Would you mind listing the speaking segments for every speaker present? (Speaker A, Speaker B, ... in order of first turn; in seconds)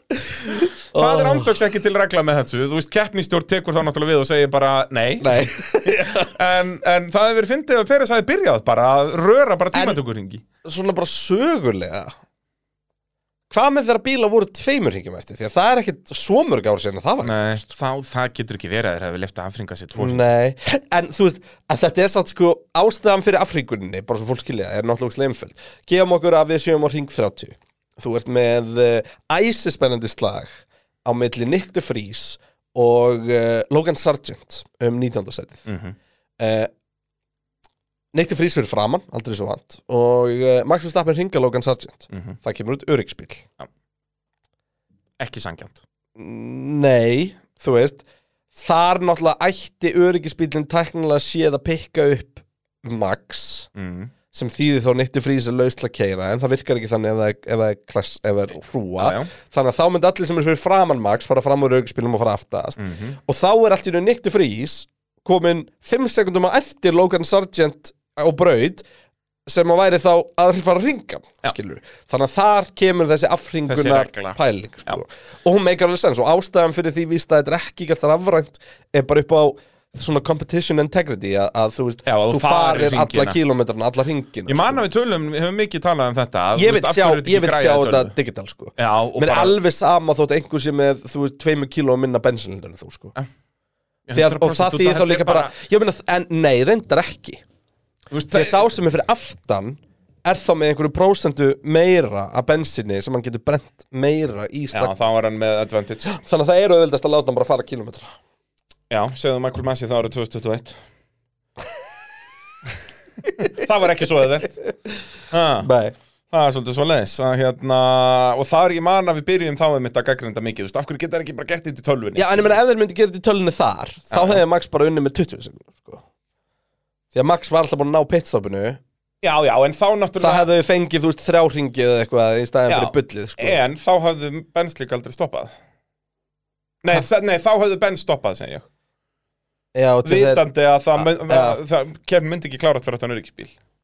Speaker A: 0.4-1.5, 5.2-6.3, 9.7-10.0, 10.6-12.2, 13.5-17.4, 20.0-35.7, 36.4-36.7, 38.1-43.5, 46.1-53.7, 54.3-68.8, 69.5-84.8, 86.5-93.2, 94.1-97.4, 98.3-104.9, 106.0-108.2, 115.6-115.9, 122.2-126.0, 127.1-128.8, 130.2-133.6, 139.7-140.4, 140.9-141.6
Speaker B: 0.9-10.4, 17.2-20.2, 35.7-36.0, 42.1-42.4, 45.2-45.8, 53.8-54.1, 59.0-59.3, 62.8-63.2, 73.7-75.0, 82.0-83.4, 84.5-88.1, 88.8-89.6, 94.1-95.5, 98.1-98.7, 104.7-106.1, 108.9-110.8, 113.3-114.6, 115.3-115.7, 116.3-122.6, 124.1-124.4, 129.2-130.5, 132.7-135.5, 136.8-138.7, 140.0-143.5